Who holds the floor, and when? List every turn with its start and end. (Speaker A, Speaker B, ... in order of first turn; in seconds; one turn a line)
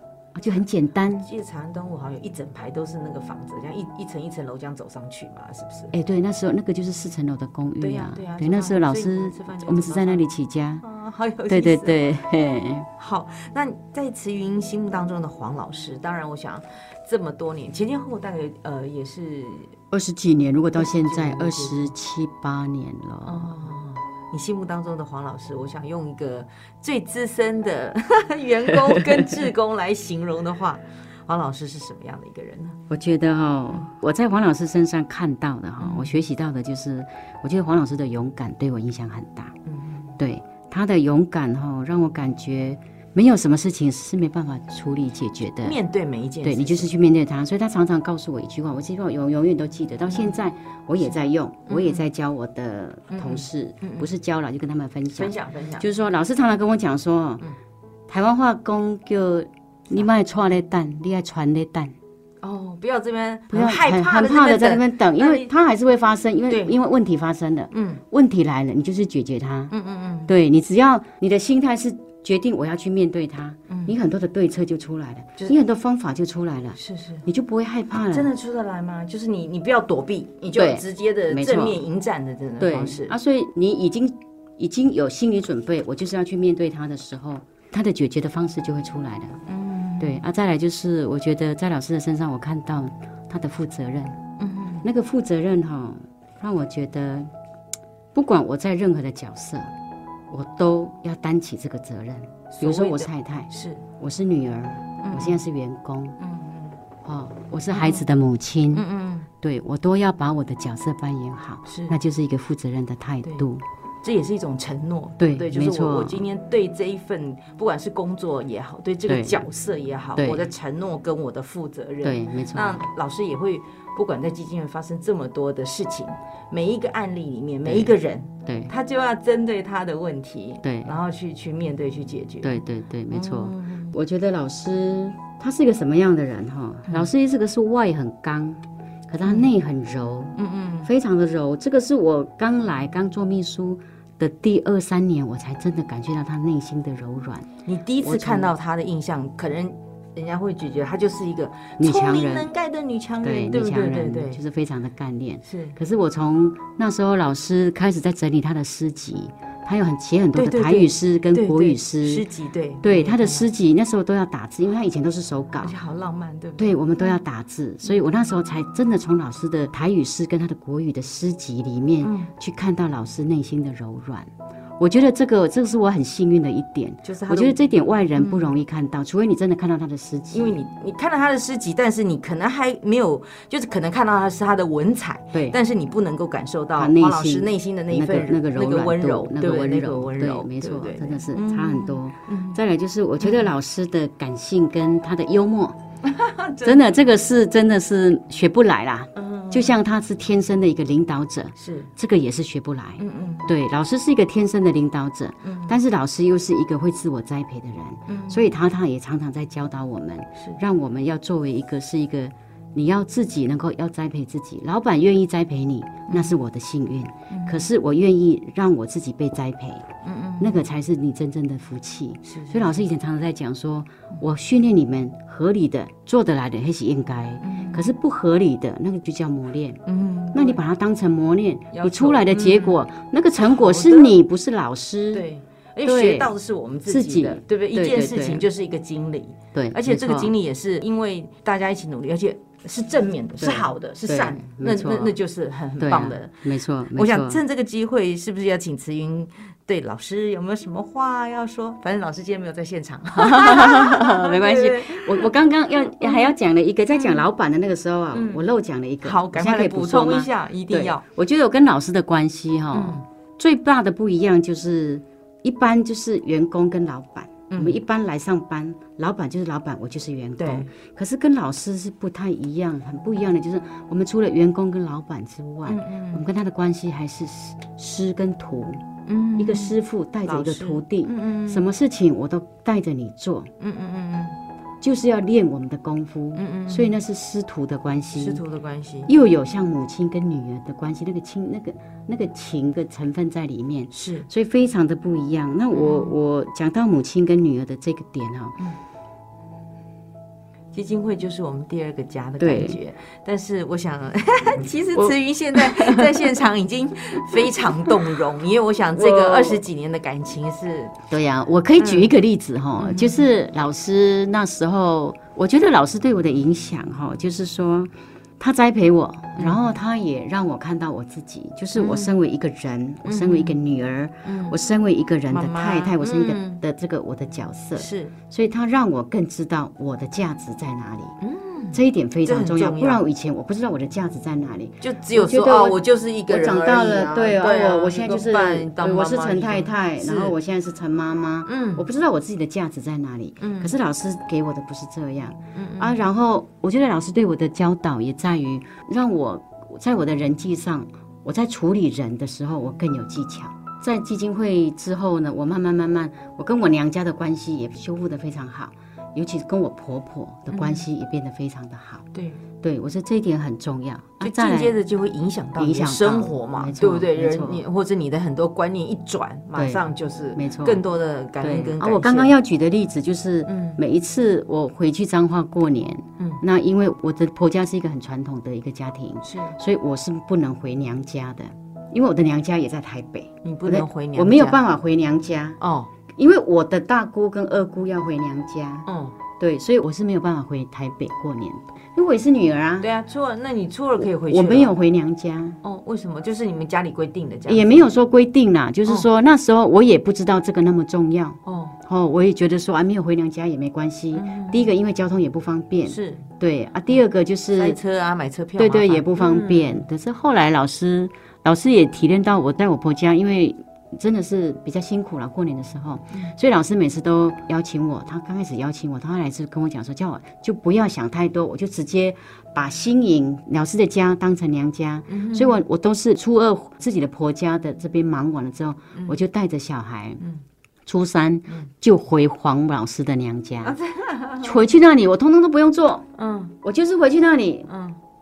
Speaker A: 0.3-1.3
Speaker B: 1.1-5.9
Speaker A: 5.9-10.8
Speaker B: 7.8-10.2
Speaker B: 10.8-12.1
Speaker A: 11.5-12.9
Speaker B: 13.0-19.7
Speaker A: 19.9-23.5
Speaker B: 20.8-21.9
Speaker B: 23.3-32.8
Speaker A: 28.9-29.2
Speaker A: 32.9-39.6
Speaker B: 35.8-36.2
Speaker B: 39.7-40.1
Speaker A: 40.2-45.8
Speaker B: 45.6-46.9
Speaker A: 46.4-57.5
Speaker B: 51.7-52.0
Speaker B: 53.1-54.1
Speaker B: 55.1-55.9
Speaker A: 58.1-62.0
Speaker B: 62.4-65.5
Speaker A: 63.5-69.7
Speaker B: 66.5-66.8
Speaker B: 67.7-68.0
Speaker B: 69.7-70.3
Speaker A: 70.3-78.3
Speaker B: 73.7-74.0
Speaker B: 76.8-77.2
Speaker B: 78.1-83.2
Speaker A: 80.5-81.8
Speaker A: 82.6-89.4
Speaker B: 89.5-90.2
Speaker A: 90.0-94.2
Speaker B: 94.4-94.8
Speaker A: 94.8-97.3
Speaker A: 98.2-99.7
Speaker A: 100.3-106.2
Speaker B: 102.5-103.8
Speaker B: 105.0-105.4
Speaker B: 106.2-106.8
Speaker A: 107.0-108.8
Speaker B: 107.7-108.1
Speaker B: 108.7-109.3
Speaker A: 109.4-113.6
Speaker B: 111.7-112.0
Speaker B: 114.0-132.6
Speaker A: 115.2-116.2
Speaker A: 119.1-119.4
Speaker A: 120.2-120.5
Speaker A: 122.0-122.9
Speaker A: 127.6-128.0
Speaker A: 128.5-128.7
Speaker A: 130.6-130.9
Speaker A: 132.4-147.5
Speaker B: 133.1-133.9
Speaker B: 139.2-139.5
Speaker B: 140.4-140.9
Speaker B: 147.7-154.4
Speaker A: 148.0-148.5
Speaker A: 151.8-152.5
Speaker A: 153.2-162.2
Speaker B: 155.4-155.8
Speaker B: 160.3-163.5
Speaker A: 162.8-165.7
Speaker B: 165.6-167.2
Speaker A: 166.6-180.6
Speaker B: 172.0-172.3
Speaker B: 177.0-178.6
Speaker B: 180.3-192.6
Speaker A: 186.8-195.8
Speaker B: 193.2-193.5
Speaker B: 196.0-196.9
Speaker A: 196.6-219.9
Speaker B: 199.2-199.8
Speaker B: 201.6-201.9
Speaker B: 203.0-203.5
Speaker B: 205.4-205.8
Speaker B: 208.1-208.5
Speaker B: 216.1-216.4
Speaker B: 217.3-217.7
Speaker B: 220.0-220.6
Speaker A: 220.4-229.8
Speaker B: 222.3-222.9
Speaker B: 227.4-227.9
Speaker B: 229.9-230.6
Speaker A: 230.3-235.2
Speaker B: 231.7-232.8
Speaker B: 233.4-234.2
Speaker B: 235.1-256.4
Speaker A: 235.8-236.3
Speaker A: 236.9-238.5
Speaker A: 239.6-240.3
Speaker A: 243.4-245.2
Speaker A: 245.8-247.4
Speaker A: 253.1-278.9
Speaker B: 256.9-257.3
Speaker B: 258.1-258.4
Speaker B: 259.0-261.0
Speaker B: 262.7-263.0
Speaker B: 267.5-267.8
Speaker B: 270.4-270.7
Speaker B: 275.7-276.3
Speaker B: 279.1-281.7
Speaker A: 279.4-283.5
Speaker B: 283.6-284.4
Speaker A: 284.8-288.4
Speaker B: 286.4-287.0
Speaker B: 288.1-289.1
Speaker A: 289.1-298.6
Speaker B: 293.9-294.3
Speaker B: 295.7-296.1
Speaker B: 300.7-311.0
Speaker A: 302.4-302.8
Speaker A: 304.9-306.4
Speaker A: 308.9-309.6
Speaker A: 311.1-331.2
Speaker B: 311.8-312.1
Speaker B: 312.8-313.3
Speaker B: 319.4-319.8
Speaker B: 321.8-322.1
Speaker B: 323.1-323.6
Speaker B: 324.2-324.6
Speaker B: 325.3-326.6
Speaker B: 327.8-328.1
Speaker B: 331.2-333.0
Speaker A: 331.7-362.1
Speaker B: 334.8-340.4
Speaker B: 341.5-341.9
Speaker B: 343.4-343.7
Speaker B: 345.6-346.0
Speaker B: 360.5-360.9
Speaker B: 362.1-362.4
Speaker A: 362.6-364.8
Speaker B: 364.2-372.4
Speaker A: 365.6-367.6
Speaker A: 369.6-369.8
Speaker A: 370.4-370.8
Speaker A: 371.4-385.6
Speaker B: 373.5-373.8
Speaker B: 379.2-379.6
Speaker B: 383.4-384.6
Speaker B: 385.6-385.9
Speaker A: 386.1-392.9
Speaker B: 388.9-389.2
Speaker B: 392.8-394.8
Speaker A: 394.0-395.6
Speaker B: 395.6-397.9
Speaker A: 397.5-407.8
Speaker B: 401.5-401.8
Speaker B: 404.1-404.7
Speaker B: 405.9-406.2
Speaker B: 407.5-409.8
Speaker A: 408.6-430.2
Speaker B: 425.1-425.6
Speaker A: 430.9-433.8
Speaker B: 433.6-434.6
Speaker A: 434.4-436.1
Speaker B: 436.2-436.6
Speaker A: 436.6-437.7
Speaker B: 437.7-438.0